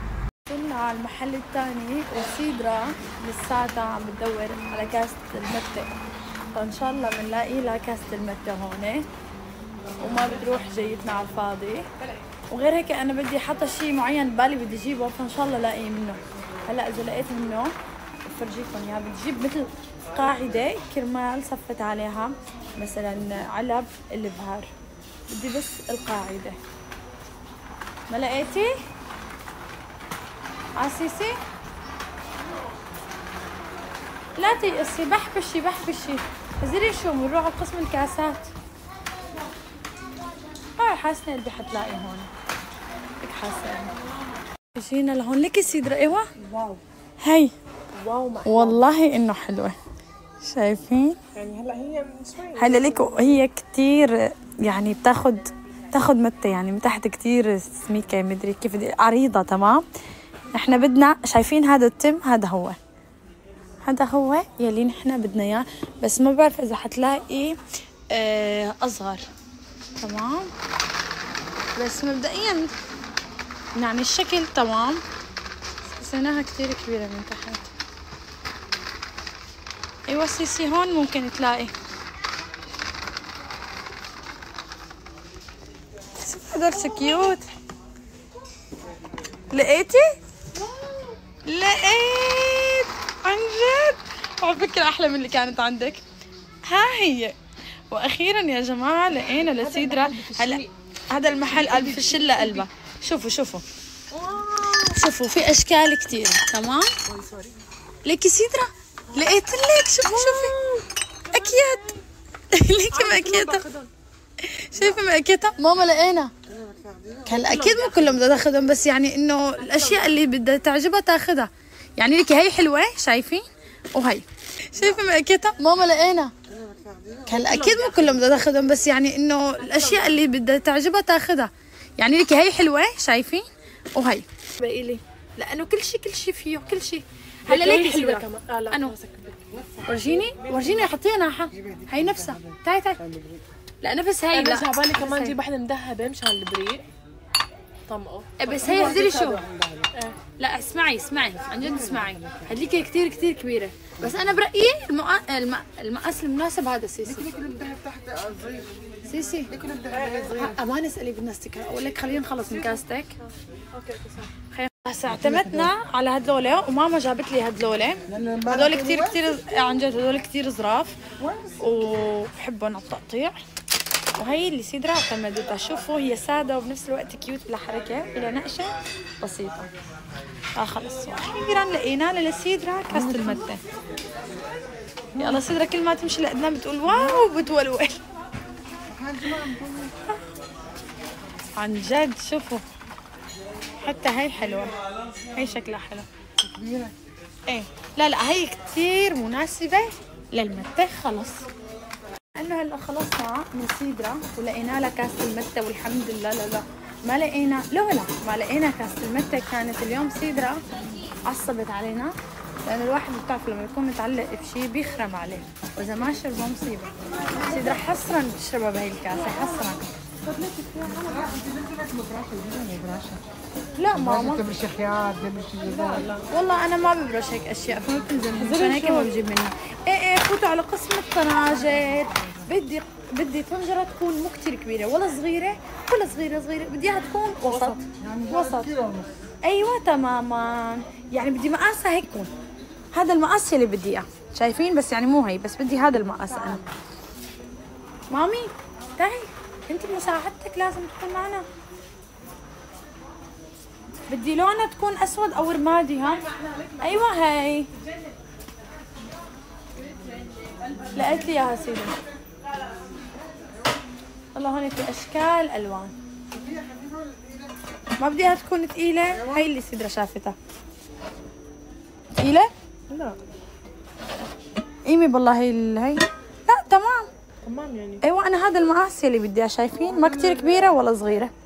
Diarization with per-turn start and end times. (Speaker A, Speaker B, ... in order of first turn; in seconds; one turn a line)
Speaker A: 0.5-5.9
Speaker A: 6.5-9.0
Speaker A: 10.0-11.9
Speaker A: 12.5-24.7
Speaker A: 25.3-26.6
Speaker A: 28.1-28.7
Speaker A: 30.8-31.3
Speaker A: 34.4-38.5
Speaker A: 40.8-42.3
Speaker A: 43.2-43.9
Speaker A: 44.7-46.3
Speaker B: 46.4-46.8
Speaker A: 47.2-47.5
Speaker B: 47.9-48.9
Speaker A: 48.4-49.8
Speaker A: 50.4-51.2
Speaker B: 51.3-53.4
Speaker A: 52.5-59.8
Speaker A: 60.5-62.8
Speaker A: 63.8-67.6
Speaker A: 68.1-69.2
Speaker A: 70.0-70.5
Speaker A: 71.7-72.7
Speaker A: 73.7-75.0
Speaker A: 75.9-77.7
Speaker A: 80.1-81.7
Speaker A: 86.2-87.5
Speaker A: 89.5-90.2
Speaker B: 90.6-91.2
Speaker A: 91.4-96.0
Speaker A: 96.7-97.3
Speaker A: 97.9-103.6
Speaker B: 99.3-100.7
Speaker B: 101.5-102.7
Speaker B: 104.1-105.0
Speaker A: 104.9-106.9
Speaker B: 107.0-107.5
Speaker A: 108.0-110.5
Speaker B: 109.1-109.4
Speaker B: 110.0-112.0
Speaker A: 111.3-111.9
Speaker A: 112.5-113.6
Speaker B: 112.9-113.9
Speaker A: 114.4-116.3
Speaker C: 116.6-117.3
Speaker A: 117.2-126.3
Speaker B: 117.3-118.2
Speaker B: 119.6-120.2
Speaker C: 126.5-127.3
Speaker A: 127.3-138.9
Speaker B: 127.3-128.2
Speaker B: 129.6-130.2
Speaker B: 137.5-140.9
Speaker A: 139.8-143.0
Speaker C: 141.9-142.3
Speaker C: 143.1-143.4
Speaker A: 143.8-145.3
Speaker B: 144.3-146.8
Speaker B: 147.9-149.3
Speaker A: 148.4-149.4
Speaker C: 148.7-149.9
Speaker A: 150.4-157.3
Speaker C: 157.1-158.7
Speaker A: 159.1-159.5
Speaker C: 159.5-160.6
Speaker B: 159.9-160.4
Speaker A: 160.3-163.1
Speaker B: 162.3-164.3
Speaker A: 164.5-171.0
Speaker C: 165.2-165.7
Speaker C: 168.1-169.3
Speaker C: 171.2-171.6
Speaker A: 171.6-173.4
Speaker A: 174.2-179.7
Speaker A: 180.6-183.6
Speaker B: 183.0-183.4
Speaker A: 185.1-188.0
Speaker C: 188.9-189.9
Speaker A: 191.6-192.6
Speaker A: 193.8-194.8
Speaker A: 195.3-196.1
Speaker C: 196.4-196.9
Speaker A: 197.5-201.4
Speaker A: 202.3-210.6
Speaker A: 211.2-212.1
Speaker A: 212.6-219.8
Speaker B: 219.1-221.5
Speaker C: 221.2-223.2
Speaker A: 223.8-224.6
Speaker C: 224.0-226.1
Speaker B: 225.6-226.2
Speaker A: 226.3-238.8
Speaker B: 228.3-229.1
Speaker B: 237.5-237.8
Speaker C: 238.0-239.1
Speaker A: 239.4-242.3
Speaker A: 242.9-246.6
Speaker B: 246.3-246.7
Speaker A: 248.1-251.4
Speaker A: 254.1-256.2
Speaker B: 256.0-257.1
Speaker A: 256.8-257.7
Speaker B: 257.7-258.2
Speaker B: 259.9-261.4
Speaker A: 260.9-261.9
Speaker A: 264.3-265.9
Speaker C: 266.3-267.5
Speaker A: 268.0-270.4
Speaker A: 272.2-272.5
Speaker B: 272.9-273.1
Speaker A: 274.8-277.1
Speaker B: 277.4-278.0
Speaker A: 278.0-281.3
Speaker C: 279.9-280.7